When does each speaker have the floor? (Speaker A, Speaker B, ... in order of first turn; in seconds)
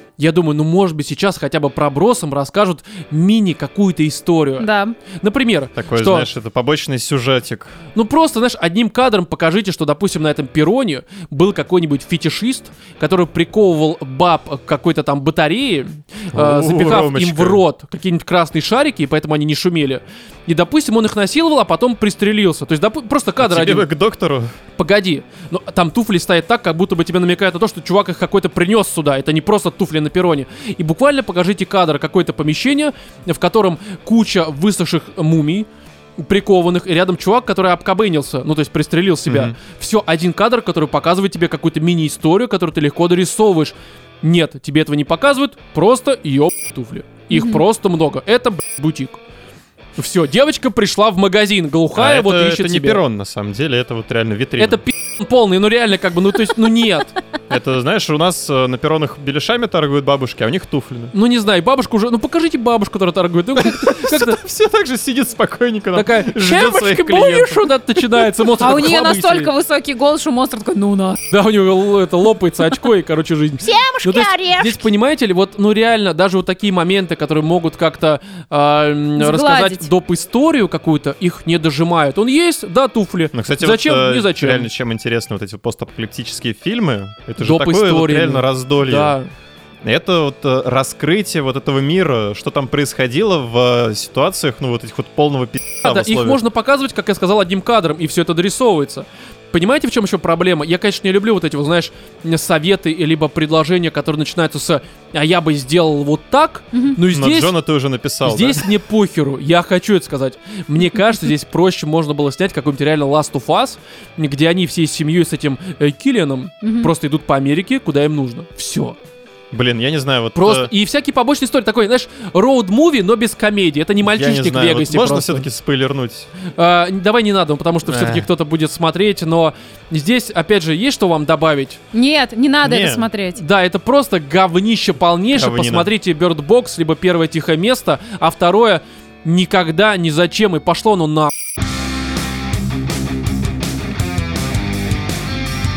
Speaker A: 0.2-6.3, 7.9-23.9, 24.8-35.7, 36.2-49.2, 50.0-53.0, 54.6-57.1, 61.1-64.4, 65.9-69.5, 71.3-84.7, 87.4-89.3, 95.8-107.5, 108.2-119.0, 120.3-125.5, 126.5-131.8, 133.3-141.3
Speaker B: 4.6-5.0, 47.3-47.6, 68.5-71.2, 73.6-74.8, 79.2-79.9, 106.7-107.0, 116.6-116.9, 131.9-133.4
Speaker C: 5.8-7.8, 16.3-17.6, 23.4-24.5, 39.3-39.5, 51.9-54.8, 57.5-61.1, 63.5-67.7, 83.3-89.2, 89.8-96.4, 107.1-108.7, 119.5-120.7, 124.0-126.3, 127.8-128.3, 132.6-133.1, 135.3-135.9